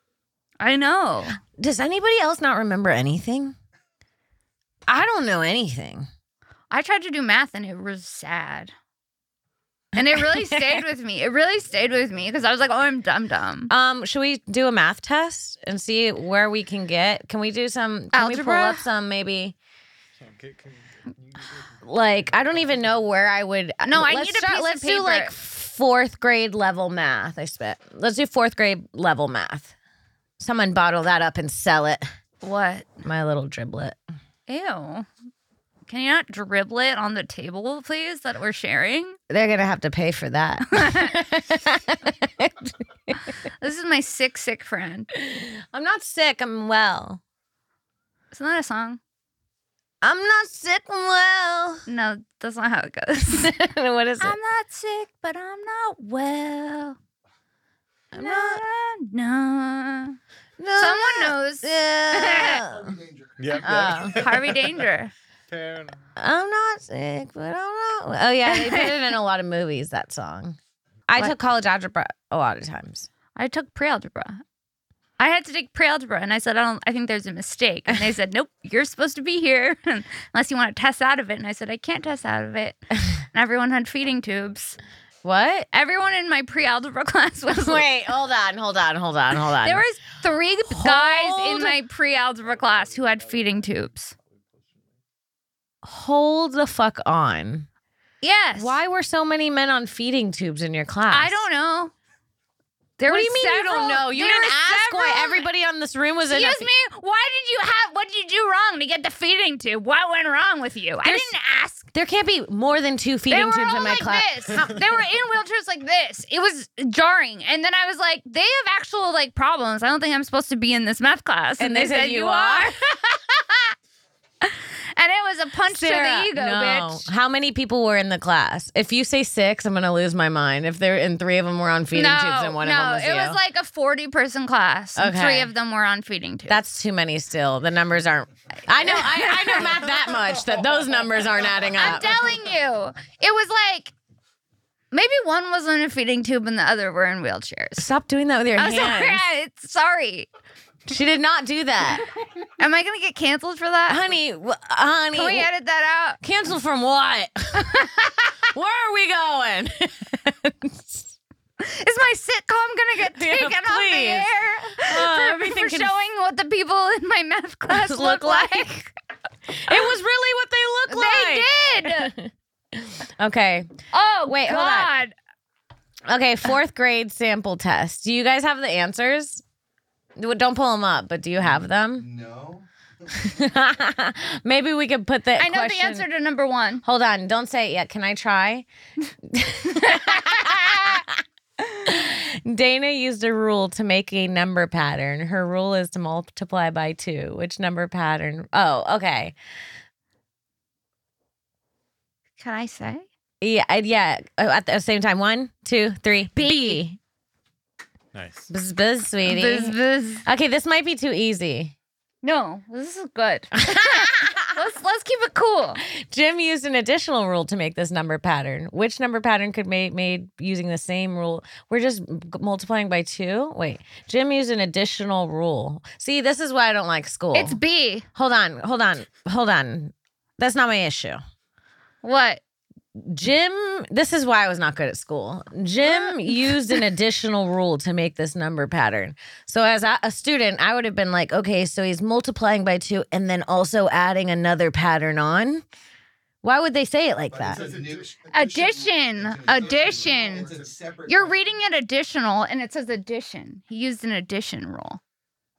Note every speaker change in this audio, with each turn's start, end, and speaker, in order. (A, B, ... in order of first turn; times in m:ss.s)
0:00.6-0:01.4 A
0:01.4-0:03.5 B
0:04.9-0:06.1 B
0:06.7-0:08.7 A
0:10.0-0:10.8 B
0:10.0-0:13.7 A
0:13.7-0:19.6 B
0:18.1-0:18.8 A
0:20.2-0:22.9 C
0:21.8-0:29.7 B
0:23.8-0:25.3 A
0:30.4-0:32.0 B
0:32.4-0:32.9 A
0:33.0-0:34.0 B
0:34.5-0:35.1 A
0:35.9-0:39.2 A
0:39.3-0:43.2 B
0:40.7-0:41.2 A
0:43.6-0:45.1 A
0:45.1-0:47.2 B
0:48.3-0:49.0 A
0:50.0-0:51.8 B
0:51.9-0:53.5 A
0:53.2-0:54.4 B
0:54.2-0:57.0 A
0:58.1-0:58.6 B
0:58.1-1:00.2 A
1:00.6-1:02.9 B
1:00.7-1:02.6 A
1:02.6-1:04.3 D
1:03.4-1:04.6 C
1:03.6-1:04.2 B
1:04.2-1:05.1 A
1:05.5-1:06.0 C
1:06.2-1:10.6 B
1:08.5-1:08.9 A
1:11.1-1:13.1 B
1:13.3-1:14.4 A
1:15.2-1:24.8 A
1:25.2-1:25.7 B
1:25.7-1:27.8 A
1:27.5-1:29.8 B
1:29.6-1:34.1 A
1:30.7-1:31.8 B
1:32.5-1:34.9 C
1:35.8-1:37.7 B
1:38.2-1:38.8 A
1:38.6-1:41.4 B
1:41.1-1:41.9 A
1:43.0-1:45.5 A
1:43.0-1:46.7 B
1:46.3-1:51.8 A
1:51.0-1:51.3 B
1:51.9-1:54.8 B
1:53.3-2:03.7 A
2:01.6-2:02.7 B
2:04.4-2:07.0 A
2:05.7-2:13.4 B
2:11.9-2:16.6 A
2:15.0-2:15.5 B
2:16.5-2:22.2 B
2:18.8-2:19.8 A
2:21.7-2:23.9 A
2:24.9-2:27.9 A
2:27.8-2:29.2 B
2:28.6-2:30.3 A
2:30.8-2:32.0 B
2:32.6-2:34.0 A
2:33.9-2:35.5 B
2:35.1-2:36.2 A
2:36.2-2:41.1 B
2:37.6-2:38.0 A
2:41.6-2:48.9 A
2:43.1-2:45.9 B
2:47.7-2:48.8 B
2:49.5-2:53.7 B
2:50.9-2:52.1 A
2:53.9-2:55.1 A
2:54.3-2:54.9 B
2:56.1-2:59.4 B
3:00.2-3:02.0 B
3:01.9-3:03.3 D
3:03.2-3:06.0 B
3:05.4-3:06.8 A
3:06.8-3:08.6 B
3:09.2-3:11.2 B
3:09.7-3:10.8 A
3:11.8-3:19.4 B
3:22.4-3:23.0 A
3:23.4-3:27.0 B
3:26.3-3:26.8 A
3:28.1-3:28.5 C
3:28.5-3:31.7 B
3:29.2-3:30.2 A
3:32.2-3:35.8 A
3:33.6-3:34.5 B
3:35.8-3:47.6 B
3:47.3-3:48.1 A
3:48.1-3:51.2 B
3:52.0-3:52.4 A
3:53.0-4:05.6 B
3:55.8-3:56.8 A
4:06.4-4:07.6 B
4:07.3-4:11.5 D
4:07.5-4:08.0 C
4:08.3-4:10.5 A
4:11.1-4:15.0 A